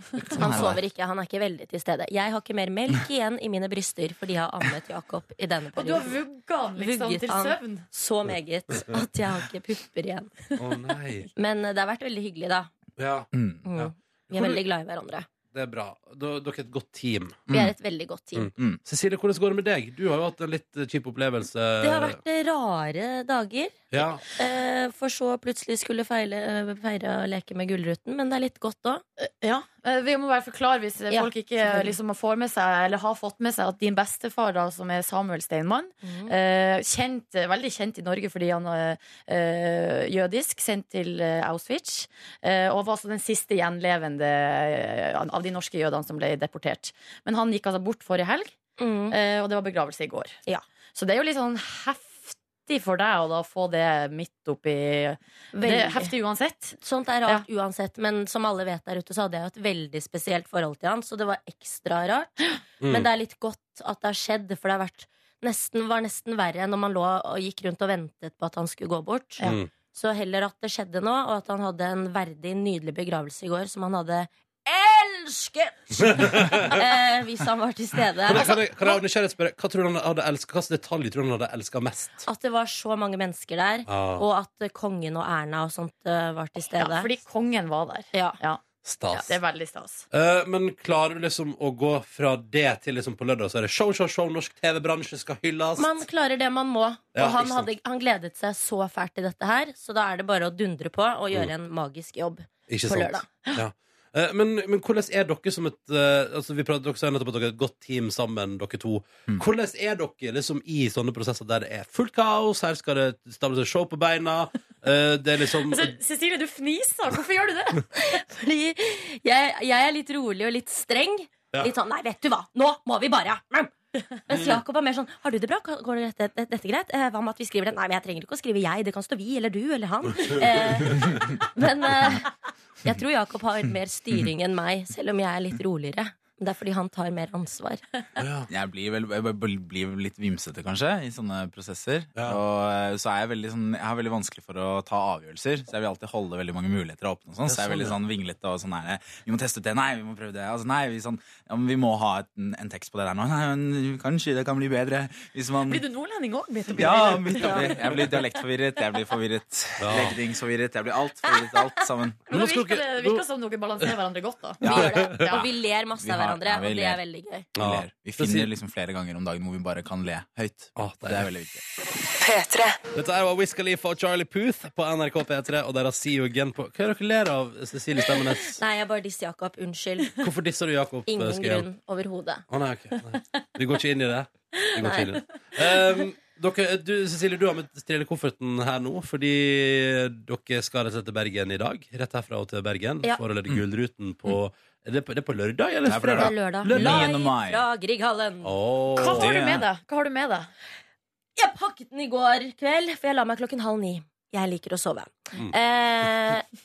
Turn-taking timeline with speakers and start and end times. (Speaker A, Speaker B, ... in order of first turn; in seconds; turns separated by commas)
Speaker A: 0.3-6.2, Speaker B: 0.4-0.8, Speaker C: 5.7-7.8, Speaker A: 6.8-10.4, Speaker D: 10.6-11.3, Speaker A: 11.3-12.7, Speaker D: 13.0-13.3, Speaker B: 13.3-13.7, Speaker A: 13.6-15.3, Speaker D: 13.8-14.6, Speaker D: 15.5-17.4, Speaker A: 17.5-18.5, Speaker D: 18.4-22.2, Speaker A: 21.8-29.0, Speaker D: 23.9-24.2, Speaker C: 29.2-48.5, Speaker A: 31.1-31.9, Speaker A: 36.0-36.3, Speaker A: 48.8-49.2, Speaker C: 49.1-50.4, Speaker C: 50.9-57.4, Speaker A: 55.5-56.1, Speaker A: 56.8-78.6, Speaker D: 62.8-63.1, Speaker D: 69.4-69.7, Speaker D: 76.1-76.8, Speaker D: 78.2-82.2, Speaker C: 78.3-79.0, Speaker A: 82.2-87.1, Speaker D: 83.9-84.2, Speaker C: 86.8-90.0, Speaker A: 88.1-88.4, Speaker D: 88.8-89.4, Speaker D: 90.1-95.9, Speaker A: 95.8-103.3, Speaker D: 97.1-97.7, Speaker D: 102.7-115.9, Speaker C: 115.7-117.8, Speaker A: 118.0-123.7, Speaker A: 124.3-132.3, Speaker D: 124.3-124.6, Speaker A: 132.8-137.8, Speaker D: 138.2-138.5, Speaker B: 138.5-155.8, Speaker D: 142.1-142.4, Speaker D: 147.4-147.9, Speaker C: 155.7-157.9, Speaker B: 156.8-162.2, Speaker A: 157.4-157.7, Speaker D: 159.8-160.2, Speaker D: 162.3-163.2, Speaker C: 162.3-164.7, Speaker A: 164.6-167.5, Speaker B: 164.6-165.5, Speaker D: 164.8-165.4, Speaker B: 166.0-167.0, Speaker D: 167.6-168.5, Speaker B: 167.6-171.6, Speaker D: 170.7-171.3, Speaker D: 172.9-178.6, Speaker A: 178.5-180.2, Speaker D: 180.2-181.7, Speaker A: 181.1-182.4, Speaker D: 182.5-197.1, Speaker A: 184.8-185.1, Speaker B: 195.9-197.7, Speaker A: 196.1-198.6, Speaker D: 198.4-199.3, Speaker C: 198.9-200.5, Speaker B: 199.2-199.7, Speaker A: 201.3-206.4